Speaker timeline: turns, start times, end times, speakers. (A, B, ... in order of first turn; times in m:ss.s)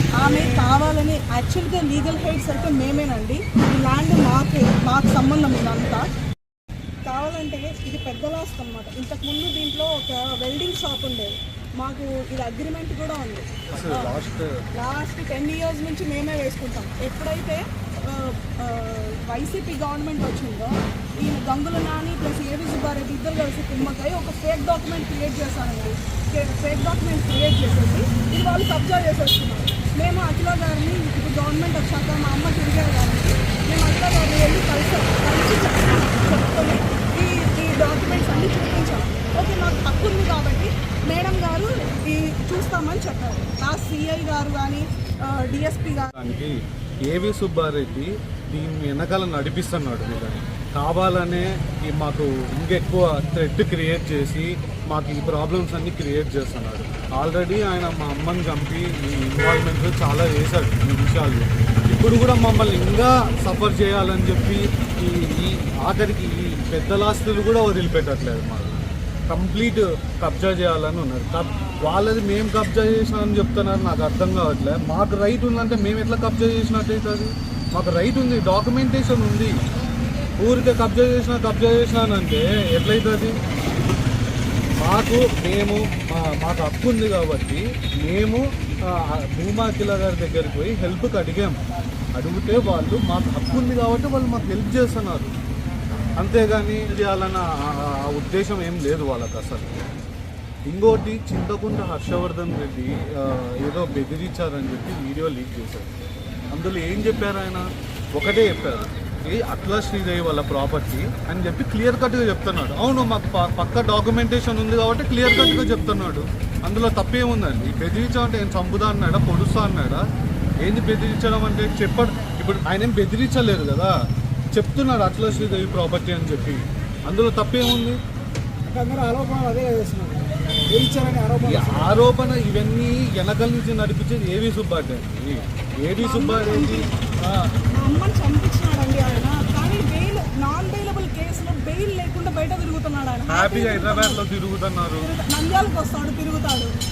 0:00.2-0:06.1 A
0:07.0-0:14.1 A
0:13.7-0:14.5 B
0:14.7-0:46.1 A
0:46.1-1:19.5 B
1:20.4-1:23.4 B
1:24.8-1:31.6 B
1:32.1-1:35.3 B
1:36.2-1:39.7 B
1:40.7-1:45.9 B
1:46.5-2:00.0 B
2:00.6-2:03.9 B
2:04.5-2:08.0 B
2:08.7-2:11.9 C
2:11.4-2:17.5 B
2:16.0-2:16.9 A
2:17.7-2:24.2 A
2:23.3-2:25.1 B
2:25.0-2:26.7 A